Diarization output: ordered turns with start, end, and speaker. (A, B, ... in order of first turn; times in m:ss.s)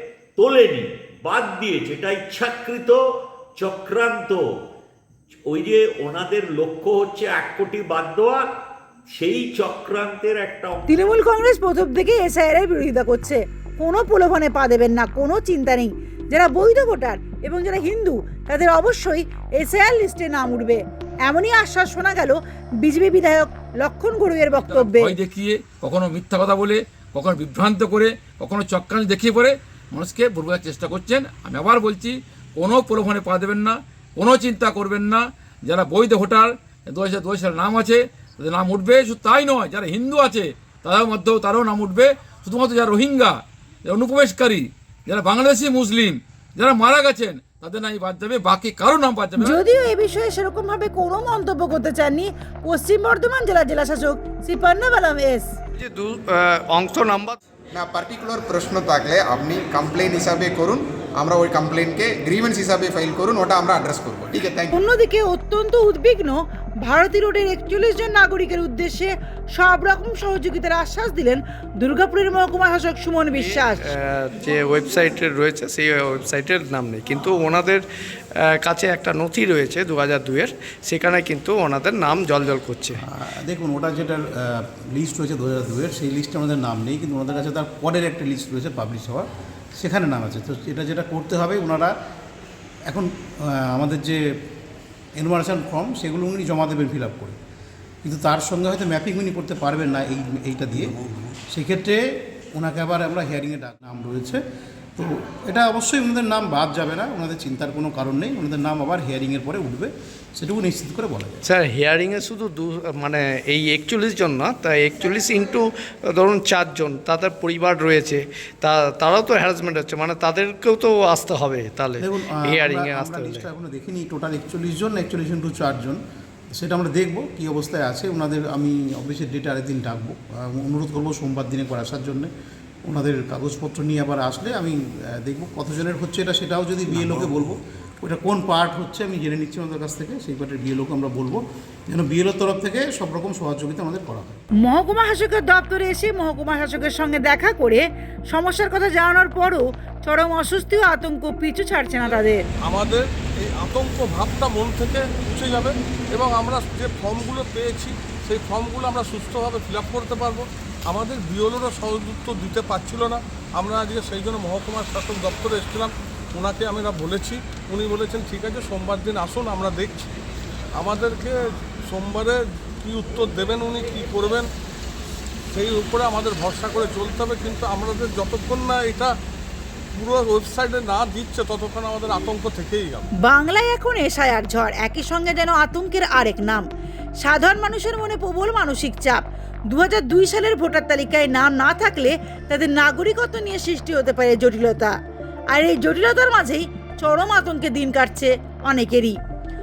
0:00.4-0:03.0 A
0:03.6-0:04.4 A
0:05.5-0:08.4 A
0:09.2-0:11.0 A
0:10.9-0:25.2 B
0:24.6-0:49.6 C
0:49.4-0:55.5 B
0:55.8-0:57.4 D
0:57.7-1:04.7 E
1:04.7-1:13.8 B
1:13.3-1:17.8 D
1:18.4-1:23.0 D
1:23.1-1:29.3 F
1:29.8-1:31.9 F
1:32.9-1:34.4 F
1:35.2-1:37.4 F
1:38.0-1:41.0 F
1:41.5-1:44.4 F
1:45.0-1:51.4 F
1:51.4-2:03.5 D
2:02.0-2:06.0 F
2:06.5-2:12.3 F
2:12.9-2:24.4 F
2:24.6-2:32.4 B
2:32.6-2:50.1 G
2:50.8-2:54.5 G
2:55.5-2:59.1 G
2:59.9-3:03.1 G
3:03.2-3:06.7 B
3:07.2-3:15.0 B
3:15.5-3:19.2 B